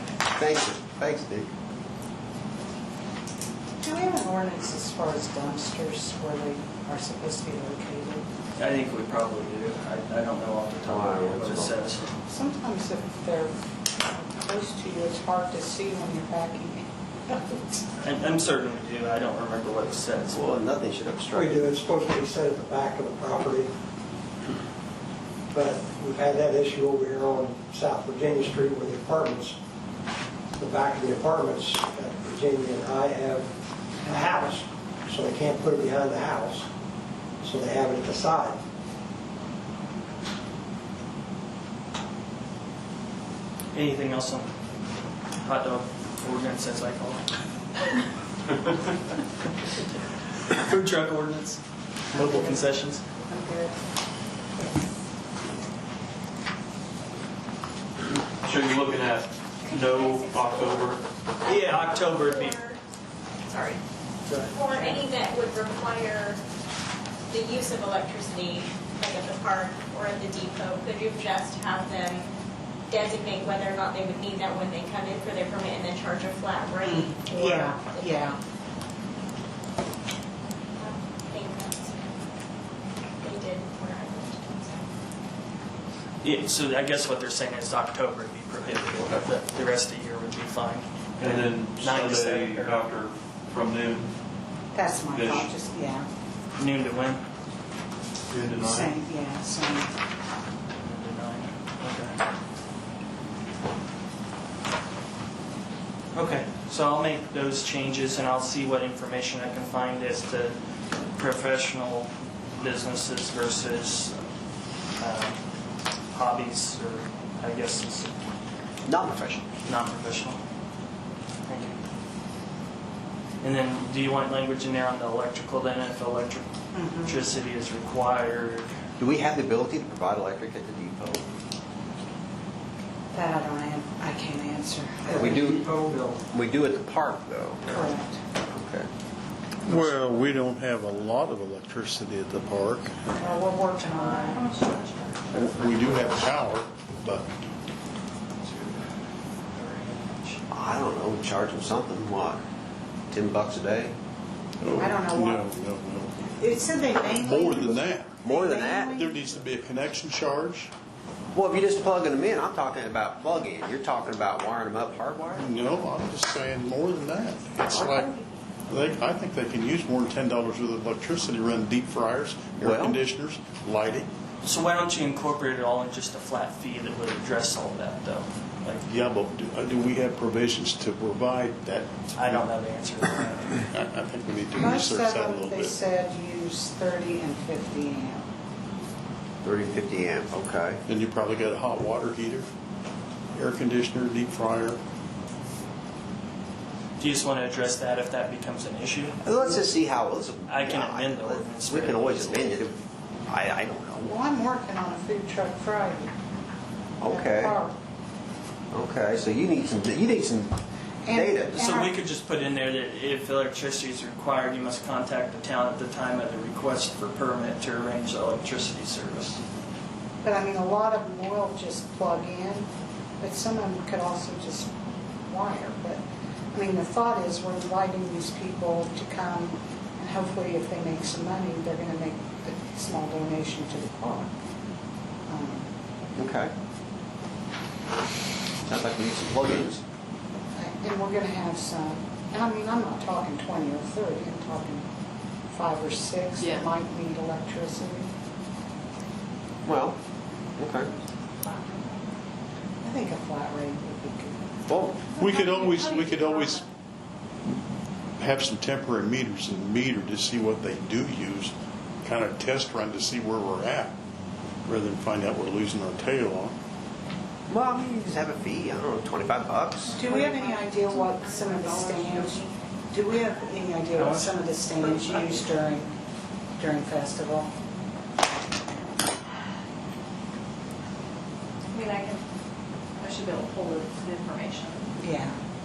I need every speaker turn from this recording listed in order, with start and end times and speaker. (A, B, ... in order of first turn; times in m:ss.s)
0:00.3-0:01.5 A
0:03.8-0:08.2 B
0:08.6-0:12.0 C
0:10.8-0:11.8 A
0:12.3-0:17.9 B
0:18.0-0:20.4 C
0:20.3-0:21.6 A
0:21.3-0:23.7 D
0:25.5-0:29.6 D
0:30.6-0:33.5 D
0:34.0-0:36.6 D
0:37.4-0:38.6 D
0:43.7-0:44.5 C
0:45.4-0:47.2 C
0:50.5-0:51.6 C
0:52.1-0:53.0 C
0:52.2-0:52.7 B
0:53.2-0:53.8 B
0:58.4-1:01.0 E
0:59.6-1:02.8 F
1:01.4-1:02.6 C
1:03.5-1:03.8 F
1:04.4-1:06.4 F
1:07.3-1:12.3 F
1:12.9-1:18.3 F
1:16.8-1:18.4 B
1:20.8-1:22.2 F
1:23.2-1:24.9 F
1:26.2-1:32.8 C
1:31.2-1:34.1 E
1:34.7-1:36.1 B
1:35.1-1:35.4 E
1:36.6-1:37.2 C
1:38.3-1:38.9 E
1:38.5-1:39.9 B
1:40.8-1:42.2 C
1:46.1-1:50.6 C
1:51.1-1:54.2 C
1:55.0-1:55.4 C
1:56.1-1:58.1 C
1:58.8-1:59.5 A
1:59.6-2:00.4 C
2:01.5-2:01.8 C
2:03.4-2:06.5 C
2:06.7-2:07.2 B
2:07.0-2:08.7 C
2:09.0-2:11.2 A
2:13.1-2:15.6 B
2:15.1-2:16.2 D
2:15.1-2:15.7 A
2:16.3-2:17.8 A
2:17.7-2:18.2 B
2:18.4-2:18.9 A
2:19.6-2:23.2 G
2:23.1-2:24.5 B
2:23.8-2:25.2 H
2:25.3-2:27.3 G
2:28.4-2:28.8 C
2:29.5-2:30.4 C
2:30.5-2:32.4 A
2:33.1-2:33.9 A
2:34.6-2:36.2 G
2:34.8-2:35.5 B
2:36.3-2:39.4 B
2:37.1-2:38.2 G
2:38.2-2:39.0 A
2:38.9-2:40.7 G
2:41.3-2:45.4 A
2:45.3-2:48.1 G
2:48.7-2:54.1 G
2:52.6-2:53.0 A
2:54.4-2:58.8 C
2:58.9-3:02.5 G
3:02.1-3:03.5 C
3:03.2-3:05.8 G
3:04.5-3:08.2 B
3:09.4-3:10.8 A
3:10.8-3:12.4 G
3:13.3-3:14.8 G
3:17.0-3:19.2 C
3:19.2-3:24.2 A
3:20.5-3:22.7 C
3:24.0-3:26.1 B
3:27.0-3:27.6 A
3:27.0-3:27.7 B
3:28.7-3:30.6 A
3:31.0-3:32.0 B
3:31.1-3:31.6 A
3:31.5-3:39.4 C
3:40.2-3:42.7 B
3:43.2-3:44.7 B
3:45.3-3:46.0 B
3:46.5-3:54.3 B
3:55.3-3:55.7 B
3:56.2-3:56.5 A
3:58.7-3:59.8 A
4:00.6-4:04.8 B
4:05.5-4:08.1 B
4:06.4-4:06.6 H
4:09.6-4:10.0 A
4:10.6-4:10.9 A
4:11.4-4:12.0 H
4:12.8-4:14.5 B
4:14.7-4:15.1 A
4:15.1-4:16.6 G
4:15.1-4:16.6 H
4:18.2-4:23.9 G
4:24.7-4:26.5 G
4:27.5-4:30.0 A
4:30.0-4:35.9 B
4:30.0-4:32.5 H
4:33.9-4:34.5 C
4:36.6-4:37.5 B
4:41.7-4:42.2 H
4:43.0-4:44.9 H
4:45.0-4:45.4 B